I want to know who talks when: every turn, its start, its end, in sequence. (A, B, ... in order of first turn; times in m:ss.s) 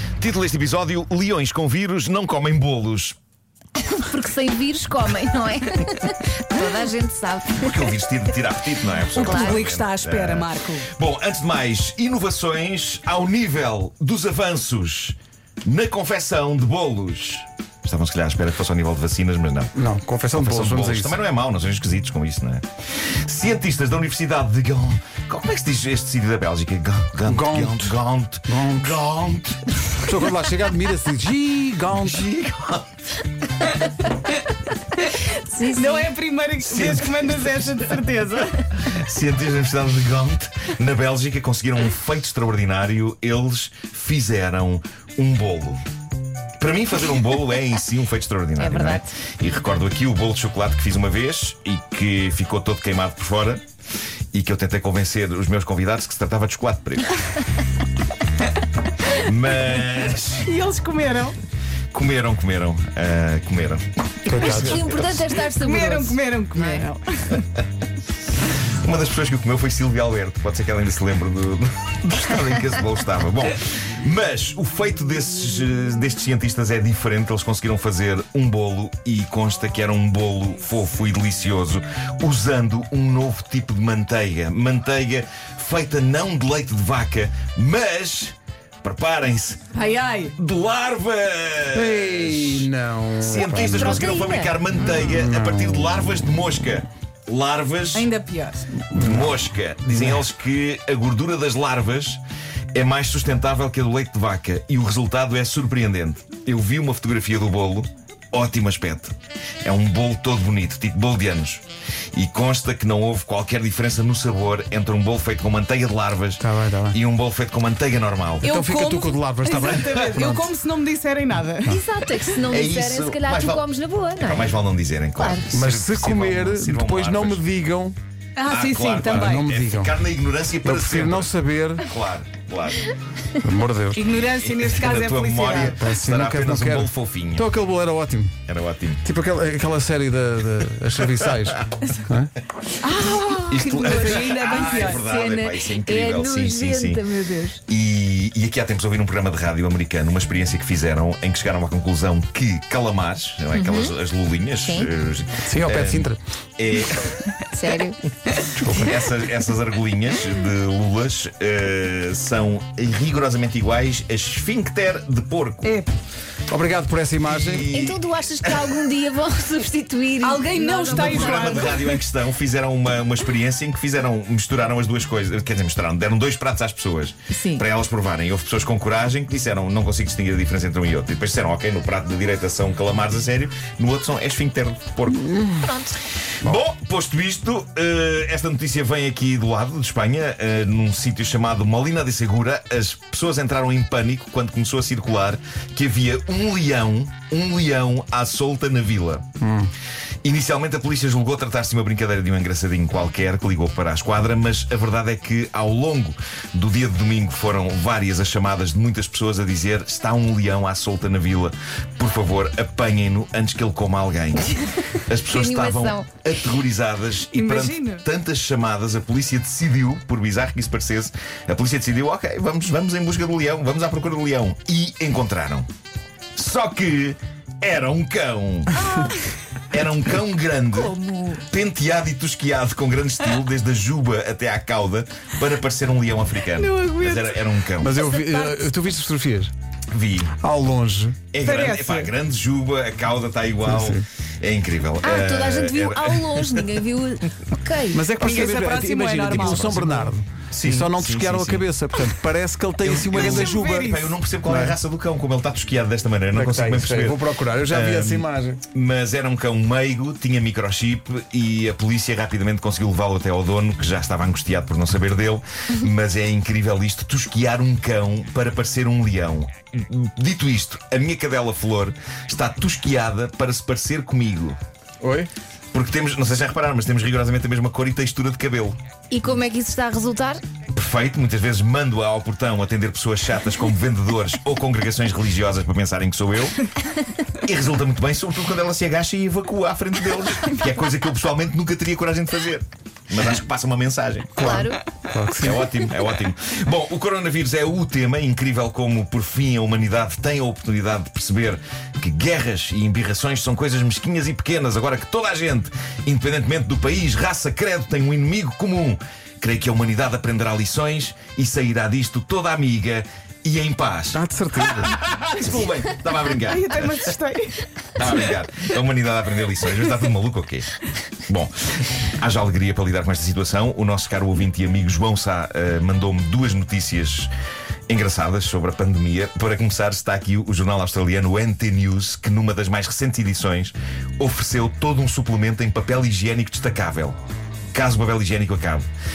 0:00.2-0:03.2 A
0:03.8-0:07.8 B
0:07.5-0:19.7 A
0:09.1-0:09.6 B
0:09.2-0:10.9 C
0:19.8-0:21.2 D
0:20.3-0:22.7 A
0:23.2-0:29.9 A
0:27.2-0:29.4 D
0:30.0-0:32.2 D
0:31.9-0:33.0 A
0:35.3-0:36.1 B
0:35.7-0:38.7 C
0:36.6-0:37.8 A
0:38.8-0:45.8 A
0:46.6-0:53.6 A
0:48.6-0:49.1 B
0:54.3-0:57.2 A
0:59.1-1:00.5 A
1:00.4-1:01.4 C
1:01.9-1:05.2 A
1:04.3-1:04.8 D
1:04.5-1:06.9 B
1:05.5-1:07.4 C
1:08.8-1:29.7 A
1:29.7-1:30.3 C
1:30.4-1:38.1 A
1:31.7-1:34.1 D
1:33.4-1:34.6 B
1:34.8-1:36.3 D
1:37.9-1:38.7 C
1:39.0-1:39.3 D
1:39.0-1:42.2 A
1:42.7-1:51.6 A
1:52.1-1:58.5 A
1:56.4-1:57.0 D
1:58.4-2:00.5 D
1:58.4-2:01.8 C
1:59.8-2:00.2 A
2:01.7-2:04.6 B
2:02.5-2:03.7 A
2:04.2-2:07.5 A
2:05.2-2:05.5 B
2:05.5-2:08.0 D
2:08.4-2:09.5 C
2:08.5-2:12.9 A
2:09.0-2:10.0 D
2:10.6-2:11.9 D
2:13.4-2:14.0 D
2:14.0-2:15.8 C
2:14.2-2:17.6 A
2:15.8-2:18.4 D
2:18.5-2:19.0 A
2:19.0-2:22.3 D
2:22.8-2:25.1 C
2:23.5-2:27.0 A
2:23.8-2:24.3 B
2:24.9-2:27.6 B
2:27.7-2:37.3 A
2:33.5-2:33.9 B
2:34.6-2:34.9 B
2:35.4-2:36.2 D
2:37.5-2:38.0 B
2:38.6-2:38.9 D
2:38.6-2:45.8 A
2:45.6-2:45.9 C
2:46.5-2:47.7 D
2:47.2-2:48.8 A
2:47.7-2:51.8 B
2:50.2-2:52.0 C
2:50.8-3:05.4 A
2:57.3-2:57.6 B
3:05.3-3:05.6 D
3:05.6-3:06.0 B
3:06.4-3:19.2 A
3:19.4-3:19.7 D
3:20.2-3:45.7 A
3:35.3-3:36.1 B
3:37.3-3:38.0 C
3:46.4-3:48.8 A
3:48.7-3:49.3 B
3:49.7-3:58.0 A
3:50.7-3:51.4 B
3:56.5-3:58.7 C
3:57.8-3:59.5 D
3:59.9-4:00.4 A
4:00.4-4:01.2 D
4:01.3-4:06.7 A
4:01.4-4:02.1 C
4:03.6-4:04.0 D
4:05.0-4:08.5 B
4:07.9-4:13.9 D
4:08.2-4:10.1 C
4:09.4-4:09.8 A
4:10.5-4:11.7 A
4:12.8-4:34.6 A
4:13.0-4:14.2 C
4:14.4-4:14.8 D
4:16.3-4:18.6 D
4:35.0-4:35.3 D
4:35.7-4:38.8 A
4:39.1-4:40.4 B
4:40.7-4:46.6 A
4:47.4-4:54.6 A
4:54.4-4:55.7 D
4:54.4-4:54.8 B
4:55.4-5:17.1 A
5:14.1-5:15.0 D
5:16.4-5:18.1 C
5:18.0-5:27.3 A
5:27.9-5:37.2 A
5:37.7-5:38.9 A